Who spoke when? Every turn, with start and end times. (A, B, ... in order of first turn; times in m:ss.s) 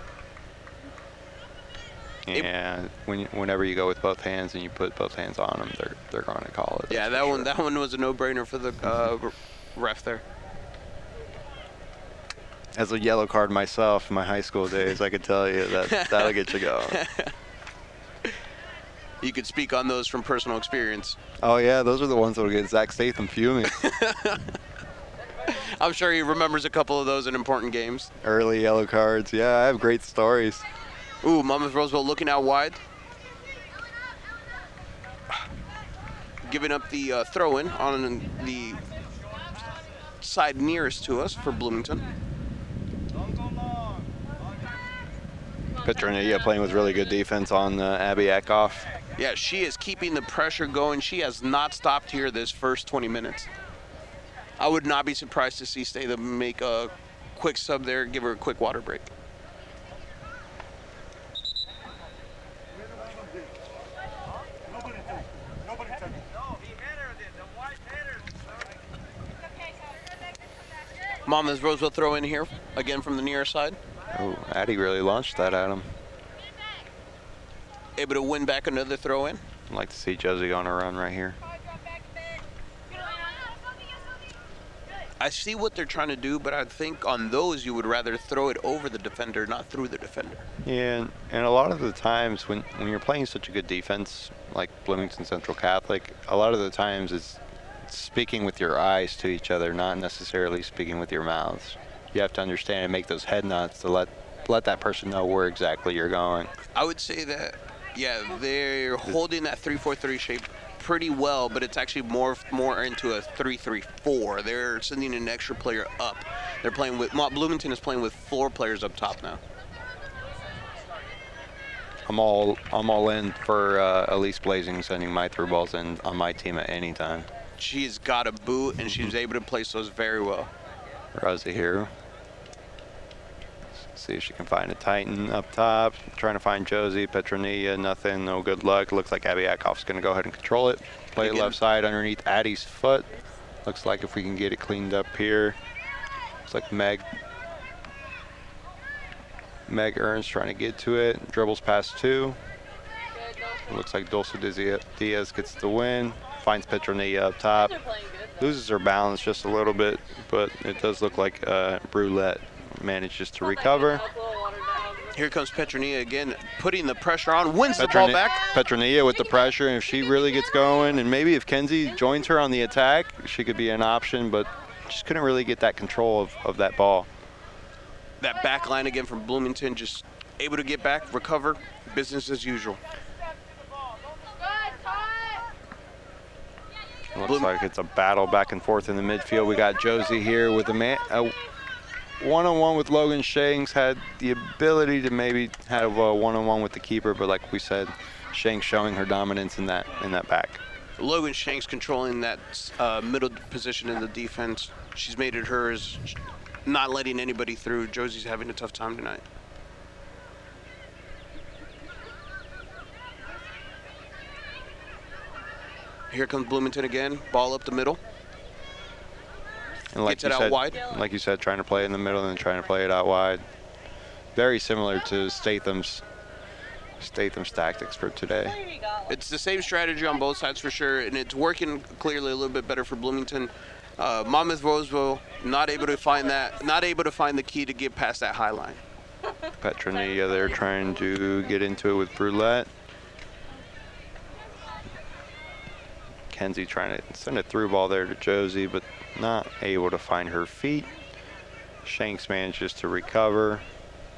0:02.2-0:07.5 A
0:06.9-0:10.2 B
0:12.7-0:17.0 A
0:15.8-0:17.3 B
0:19.2-0:21.2 B
0:21.4-0:23.8 A
0:23.7-0:24.5 B
0:25.4-0:28.1 B
0:28.2-0:30.6 A
0:31.2-0:32.8 B
0:36.4-0:38.8 B
0:40.2-0:42.0 B
0:45.8-0:48.9 A
0:49.2-0:53.5 B
0:54.6-0:59.1 B
1:11.2-1:13.8 B
1:14.1-1:15.9 A
1:18.0-1:19.4 B
1:19.7-1:21.4 A
1:25.2-1:30.4 B
1:30.6-1:46.5 A
1:46.7-1:59.4 B
2:02.0-2:07.3 A
2:07.6-2:10.5 B
2:11.1-2:11.9 A
2:13.8-2:23.1 A
2:21.2-2:21.6 B
2:23.6-2:25.6 A
2:26.5-2:27.1 A
2:29.7-2:32.4 A
2:33.1-2:33.7 C
2:33.7-2:37.8 A
2:37.6-2:38.4 C
2:38.4-2:44.0 A
2:43.4-2:45.2 C
2:45.1-2:48.4 B
2:47.8-2:57.1 A
2:58.2-3:02.8 B
3:07.1-3:11.4 A
3:07.2-3:07.5 B
3:12.2-3:20.6 A
3:21.0-3:29.2 B
3:36.1-3:38.0 B
3:39.9-3:43.4 A
3:40.0-3:40.8 B
3:44.3-3:46.0 A
3:47.0-3:48.6 A
3:48.6-3:49.1 C
3:49.1-3:58.8 B
3:59.6-4:02.7 A
4:06.3-4:10.9 A
4:11.8-4:13.6 A